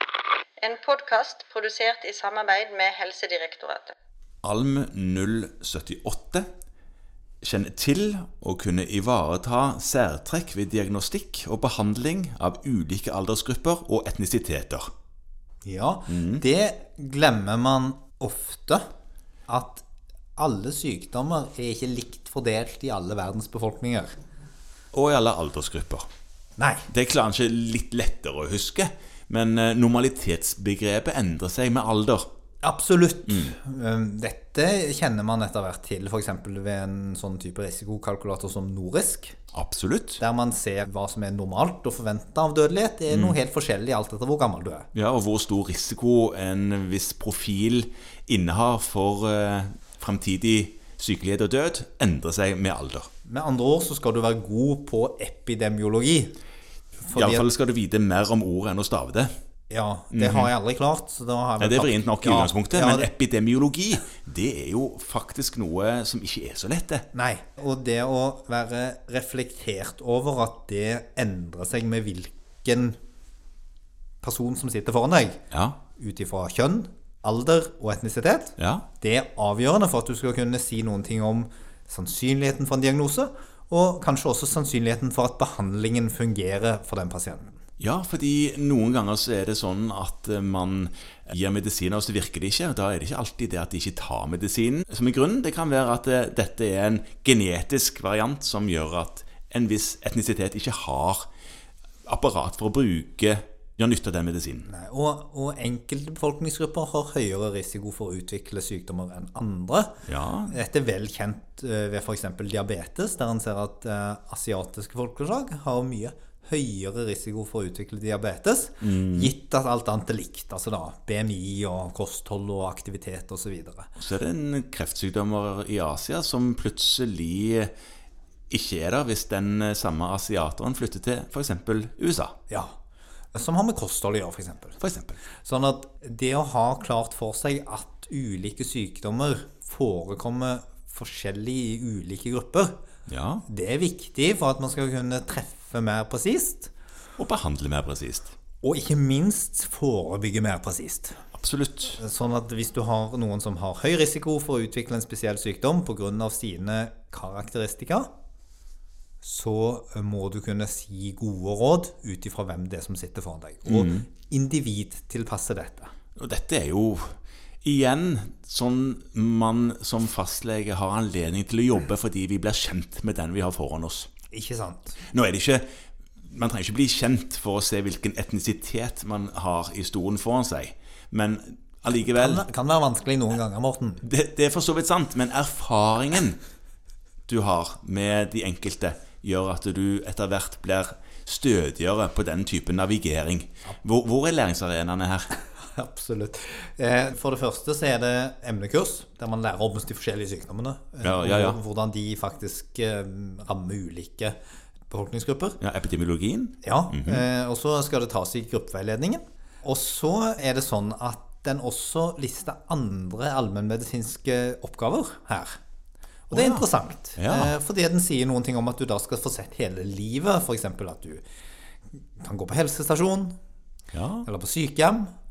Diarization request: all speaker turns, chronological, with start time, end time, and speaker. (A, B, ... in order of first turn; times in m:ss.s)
0:00.6-0:03.9 A
0:04.4-0:06.5 B
0:07.4-0:14.9 B
0:15.6-0:18.8 C
0:16.1-0:16.4 B
0:19.5-0:19.8 C
0:20.4-0:24.2 C
0:24.9-0:26.1 B
0:26.6-0:26.8 C
0:26.9-0:32.2 B
0:32.6-0:39.4 C
0:33.3-0:33.6 B
0:39.5-0:40.2 B
0:40.2-0:44.9 C
0:43.1-0:43.4 B
0:44.9-0:53.1 B
0:53.3-0:56.4 C
0:57.0-0:57.5 C
0:57.1-0:59.3 B
0:59.7-1:03.1 C
1:00.1-1:00.5 B
1:01.6-1:07.0 B
1:07.1-1:13.0 C
1:14.2-1:15.4 C
1:15.5-1:15.8 B
1:16.0-1:27.6 C
1:18.6-1:18.9 B
1:27.8-1:41.3 B
1:42.1-1:44.7 B
1:44.7-2:03.9 C
1:50.0-1:50.6 B
1:58.8-1:59.3 B
2:04.0-2:07.7 B
2:08.5-2:12.4 B
2:13.3-2:14.8 C
2:14.8-2:15.2 B
2:15.4-2:22.8 C
2:23.1-2:23.4 B
2:23.5-2:26.7 C
2:27.2-2:28.3 B
2:28.6-2:31.2 C
2:31.4-2:32.0 B
2:32.0-2:38.1 C
2:39.2-2:45.9 C
2:43.7-2:44.1 B
2:46.2-2:54.1 B
2:54.3-2:55.0 C
2:55.1-2:55.6 B
2:56.3-3:02.5 B
3:02.1-3:04.0 C
3:04.0-3:06.4 B
3:07.3-3:15.3 B
3:15.5-3:24.4 C
3:21.0-3:21.6 B
3:24.9-3:25.6 C
3:25.6-3:27.2 B
3:26.6-3:35.6 C
3:36.3-3:41.2 C
3:36.3-3:36.6 B
3:37.2-3:37.6 B
3:42.2-3:43.3 C
3:43.9-3:44.3 B
3:44.2-3:45.1 C